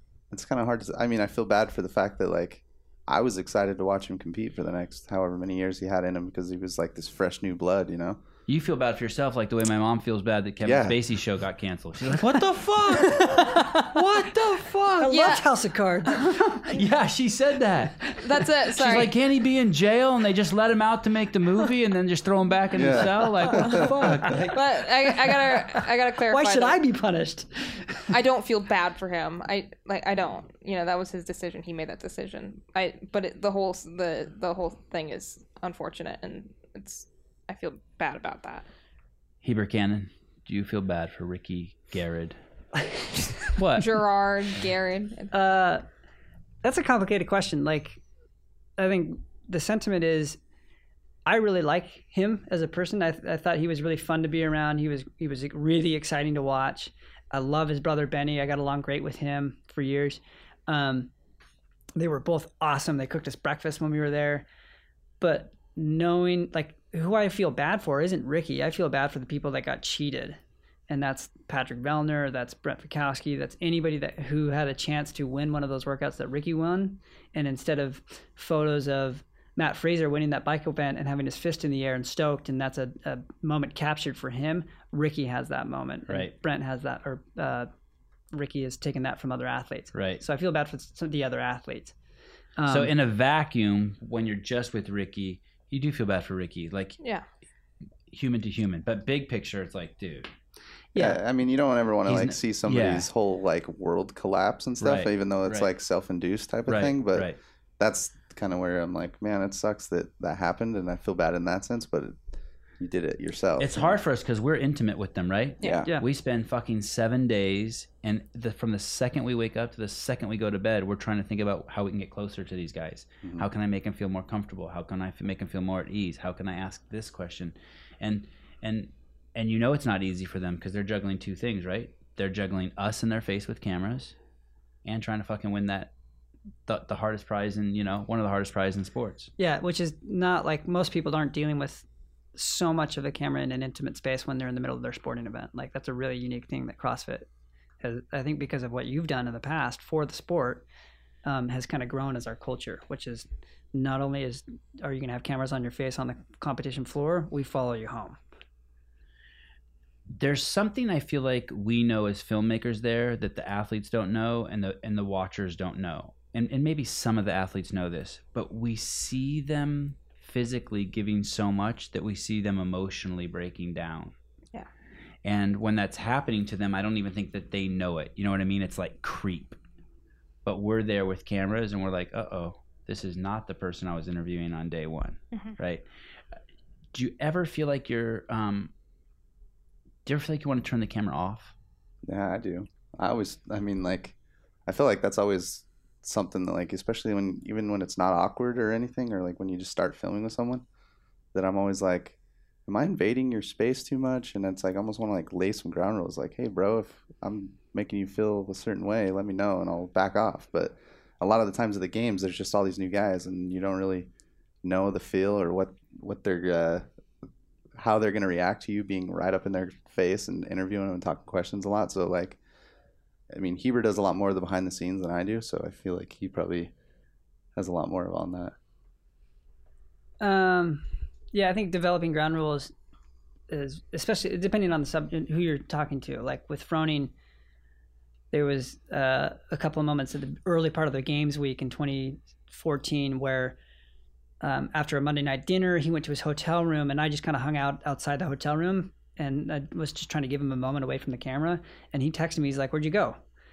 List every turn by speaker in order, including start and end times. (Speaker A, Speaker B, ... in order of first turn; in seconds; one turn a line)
Speaker A: 0.3-8.2
Speaker B: 8.5-15.1
Speaker A: 10.6-11.0
Speaker C: 13.0-16.4
Speaker D: 15.1-15.5
Speaker B: 16.6-18.1
Speaker D: 18.2-19.1
Speaker B: 18.7-24.6
Speaker A: 22.7-24.1
Speaker D: 24.5-26.8
Speaker C: 25.3-28.1
Speaker D: 28.1-38.7
Speaker B: 39.4-42.4
Speaker B: 43.6-43.9
Speaker D: 43.8-45.3
Speaker C: 45.3-45.9
Speaker C: 46.6-48.0
Speaker C: 48.8-50.4
Speaker C: 51.3-61.1
Speaker C: 62.0-64.5
Speaker C: 65.2-70.4
Speaker C: 70.9-87.7
Speaker B: 86.1-86.3
Speaker C: 88.3-91.9
Speaker B: 89.9-90.2
Speaker C: 92.6-92.9
Speaker B: 92.7-97.0
Speaker D: 97.0-97.2
Speaker B: 98.1-100.3
Speaker C: 100.9-101.2
Speaker A: 101.0-112.2
Speaker B: 102.1-103.1
Speaker B: 104.8-105.7
Speaker B: 106.7-107.4
Speaker A: 112.8-114.0
Speaker B: 113.6-134.2
Speaker A: 115.6-115.9
Speaker B: 134.8-135.9
Speaker B: 136.7-139.3
Speaker C: 139.4-147.3
Speaker C: 147.8-150.7
Speaker C: 151.2-158.2
Speaker B: 160.2-174.1
Speaker B: 175.2-179.6
Speaker B: 180.4-185.8
Speaker D: 185.3-185.6
Speaker B: 186.9-188.7
Speaker B: 190.1-191.5
Speaker A: 192.1-194.2
Speaker A: 194.7-200.6
Speaker A: 201.3-214.1
Speaker A: 214.6-216.9
Speaker A: 217.8-222.4
Speaker A: 223.3-226.7
Speaker A: 227.6-228.6
Speaker C: 230.2-232.7
Speaker C: 233.5-237.1
Speaker C: 238.3-243.6
Speaker C: 244.4-253.2